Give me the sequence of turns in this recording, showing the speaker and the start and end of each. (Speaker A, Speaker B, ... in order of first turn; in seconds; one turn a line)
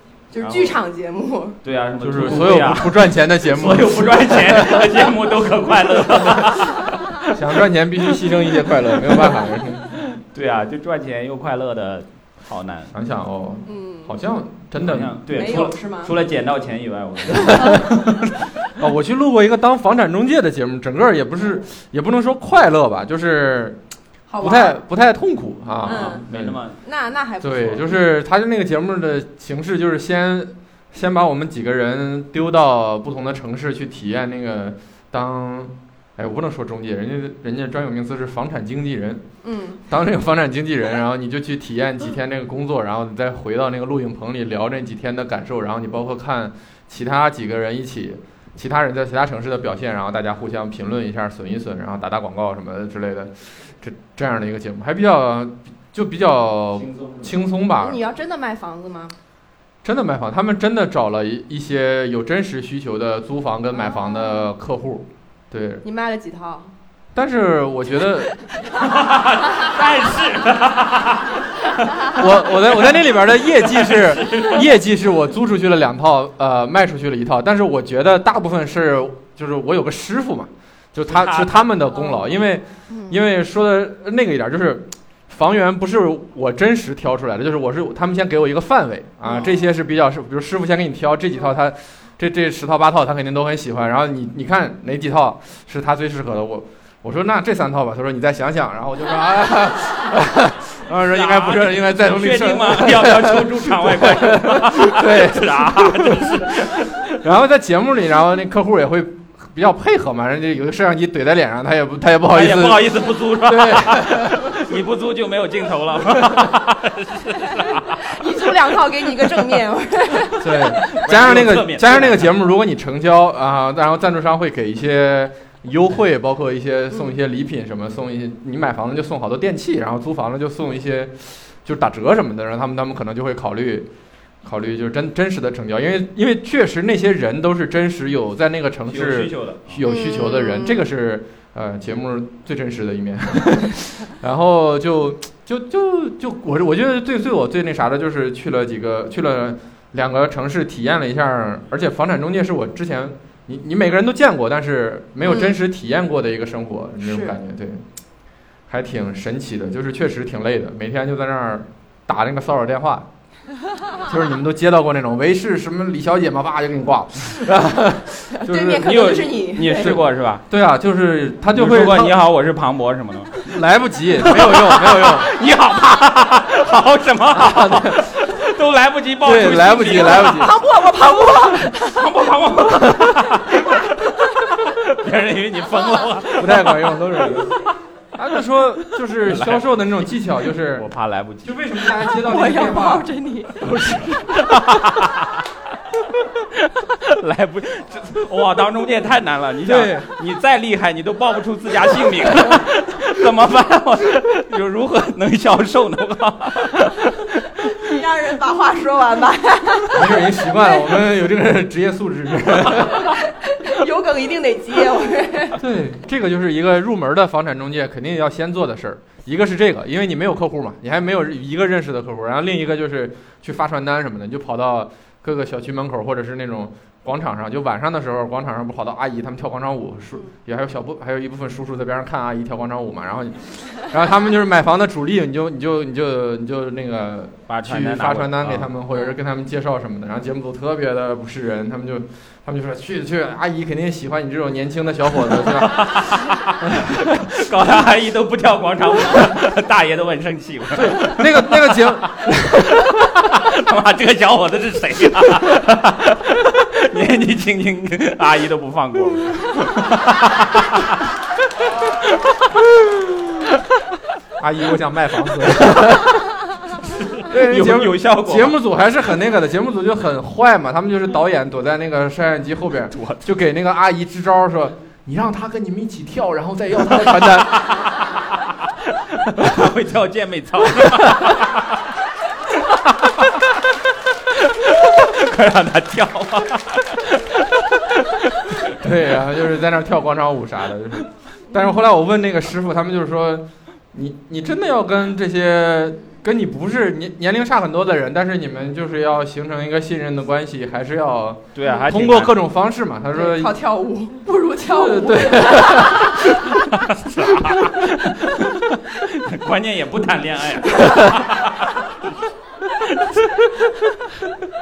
Speaker A: 0.3-1.6
Speaker B: 0.4-0.8
Speaker B: 1.6-7.4
Speaker C: 2.0-5.1
Speaker C: 7.3-10.0
Speaker B: 8.1-12.9
Speaker C: 12.9-15.2
Speaker A: 13.7-14.1
Speaker B: 14.8-18.0
Speaker A: 15.3-16.1
Speaker C: 17.3-23.8
Speaker A: 24.3-24.8
Speaker C: 24.4-26.6
Speaker A: 25.9-26.2
Speaker B: 25.9-26.8
Speaker A: 26.8-28.0
Speaker C: 27.4-39.2
Speaker A: 39.4-39.8
Speaker C: 39.9-58.0
Speaker B: 56.8-57.4
Speaker A: 57.8-59.1
Speaker C: 59.8-65.8
Speaker A: 65.8-66.7
Speaker C: 67.2-68.3
Speaker B: 68.8-73.0
Speaker C: 72.0-114.6
Speaker B: 73.6-74.7
Speaker B: 81.1-81.8
Speaker B: 101.0-107.2
Speaker B: 112.3-118.2
Speaker A: 117.8-120.6
Speaker C: 120.4-133.9
Speaker B: 120.7-122.3
Speaker C: 134.4-157.8
Speaker B: 138.9-139.8
Speaker A: 139.8-140.8
Speaker A: 155.2-155.6
Speaker A: 157.0-157.4
Speaker C: 158.7-163.1
Speaker C: 164.0-169.0
Speaker A: 168.3-170.0
Speaker B: 168.8-170.4
Speaker C: 169.8-172.2
Speaker B: 171.5-173.5
Speaker C: 173.4-175.3
Speaker B: 174.2-180.6
Speaker C: 177.3-178.2
Speaker C: 179.2-180.6
Speaker A: 180.1-182.0
Speaker B: 181.6-187.2
Speaker C: 186.4-187.6
Speaker C: 188.2-190.9
Speaker B: 189.3-189.7
Speaker B: 190.7-191.6
Speaker C: 191.4-193.1
Speaker A: 192.2-193.6
Speaker C: 193.6-194.2
Speaker B: 193.6-195.5
Speaker B: 196.0-207.7
Speaker C: 199.7-200.1
Speaker A: 207.8-210.4
Speaker C: 209.9-213.2
Speaker A: 212.8-215.6
Speaker C: 215.6-245.9
Speaker B: 237.5-238.7
Speaker B: 245.5-261.1
Speaker C: 246.6-247.2
Speaker C: 250.7-252.8
Speaker B: 261.9-263.6
Speaker C: 264.4-266.4
Speaker B: 265.8-266.2
Speaker B: 266.7-268.6
Speaker C: 267.3-277.8
Speaker B: 272.9-273.3
Speaker B: 277.2-281.8
Speaker B: 282.5-283.7
Speaker B: 284.3-288.7
Speaker C: 288.7-303.5
Speaker B: 301.6-302.4
Speaker A: 303.1-306.2
Speaker C: 304.7-306.5
Speaker B: 306.6-312.0
Speaker C: 307.3-307.7
Speaker B: 312.8-314.4